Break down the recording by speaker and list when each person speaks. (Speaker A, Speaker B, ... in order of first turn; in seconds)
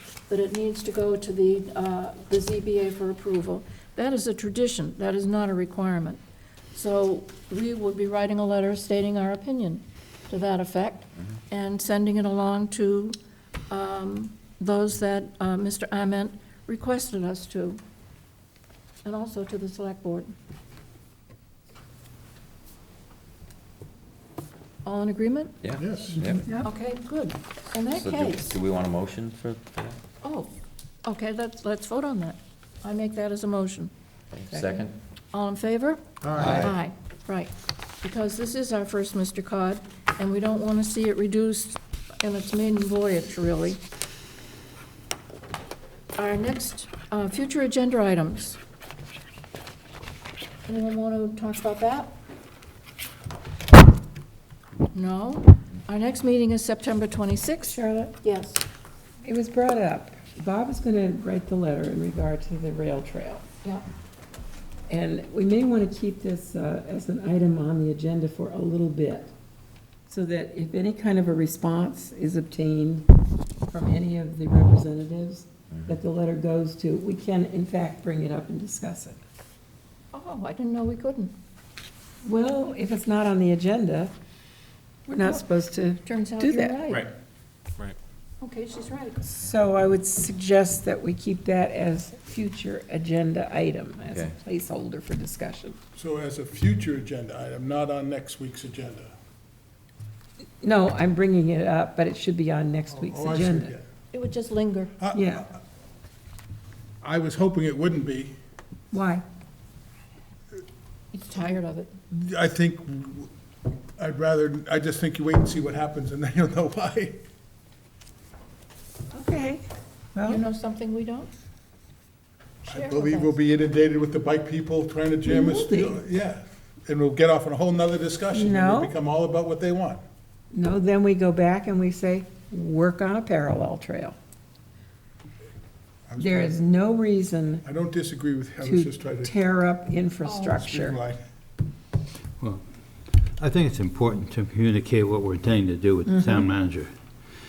Speaker A: 0.3-6.2, 6.7-13.2, 13.7-17.8, 19.1-20.3, 24.9-25.5, 26.6-28.5, 30.2-30.5, 31.1-33.9, 35.3-37.5, 38.0-43.8, 46.2-48.6, 50.7-52.1, 54.9-58.6, 80.1-81.3, 85.2-85.5, 86.0-87.1, 88.4-89.2, 104.1-105.0, 111.1-111.9, 120.2-121.3, 122.7-123.3
Speaker B: 25.6-26.5, 27.9-30.0, 34.3-35.0, 36.4-36.8, 94.1-94.3
Speaker C: 25.8-26.3, 36.2-36.7, 96.0-99.1, 102.9-103.8, 105.0-105.4, 107.0-108.3, 112.1-113.3, 114.0-117.2, 122.7-130.0, 136.1-136.6, 137.6-139.3, 140.3-141.2
Speaker D: 26.4-26.7, 34.5-34.8, 57.7-58.2, 59.2-63.4, 64.9-69.3, 70.1-73.1, 73.7-79.2, 82.2-84.1, 85.1-86.8, 89.2-95.8, 100.6-103.7, 105.1-105.5, 108.9-109.2, 119.1-120.4, 125.2-126.0, 128.3-128.9, 130.5-134.2, 136.2-137.6, 138.6-141.0, 146.1-146.5
Speaker E: 142.4-147.0